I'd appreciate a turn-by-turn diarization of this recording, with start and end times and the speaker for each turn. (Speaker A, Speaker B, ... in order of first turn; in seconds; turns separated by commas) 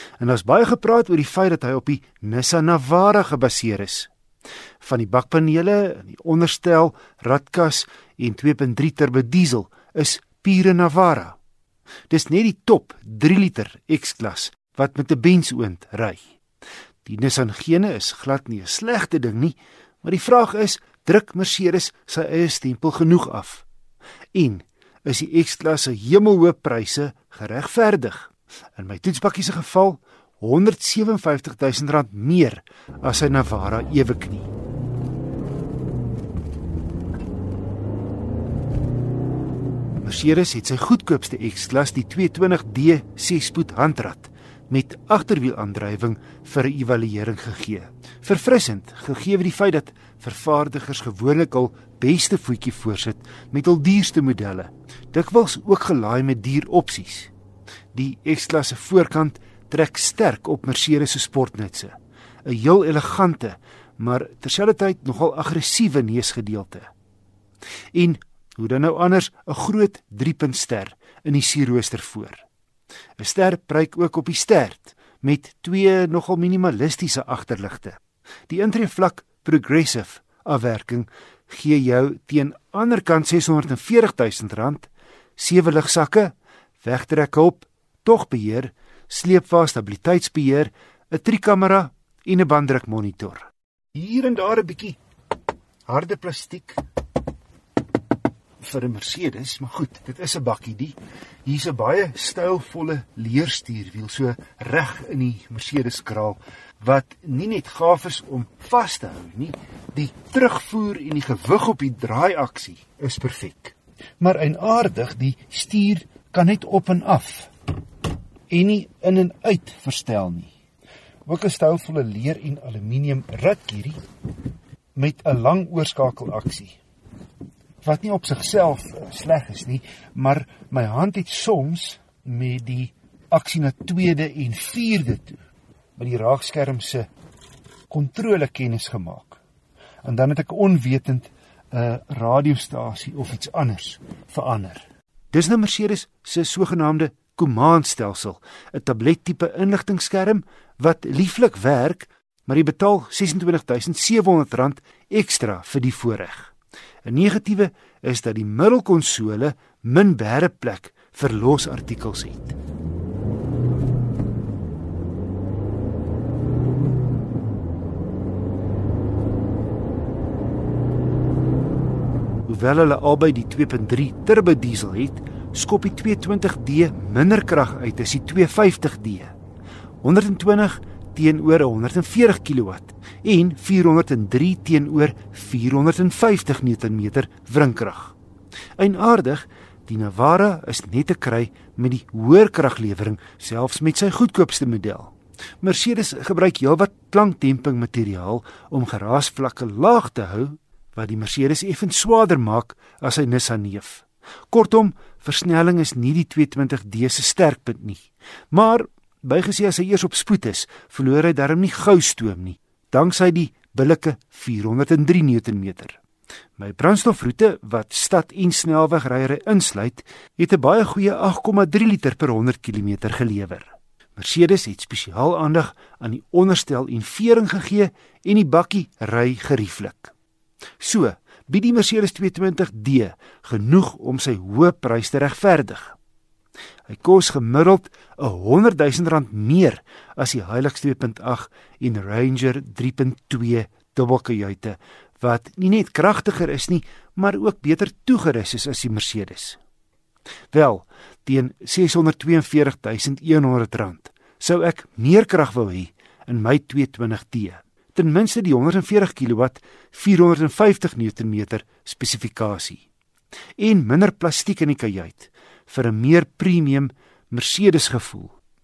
Speaker A: 0.2-4.1, Speaker A: 4.8-11.4, Speaker A: 12.1-16.2, Speaker A: 17.0-23.6, Speaker A: 24.3-34.5, Speaker A: 40.0-57.3, Speaker A: 57.9-66.9, Speaker A: 67.9-72.4, Speaker A: 73.2-95.0, Speaker A: 95.9-96.8, Speaker A: 98.6-117.5, Speaker A: 118.5-120.5, Speaker A: 121.2-124.0, Speaker A: 124.9-126.8, Speaker A: 127.8-135.4, Speaker A: 135.9-137.1, Speaker A: 137.9-139.4, Speaker A: 140.0-162.5, Speaker A: 172.4-179.3, Speaker A: 180.0-188.1, Speaker A: 188.8-216.0, Speaker A: 216.6-230.1, Speaker A: 230.8-236.0, Speaker A: 236.9-249.6, Speaker A: 250.5-262.8, Speaker A: 263.6-268.4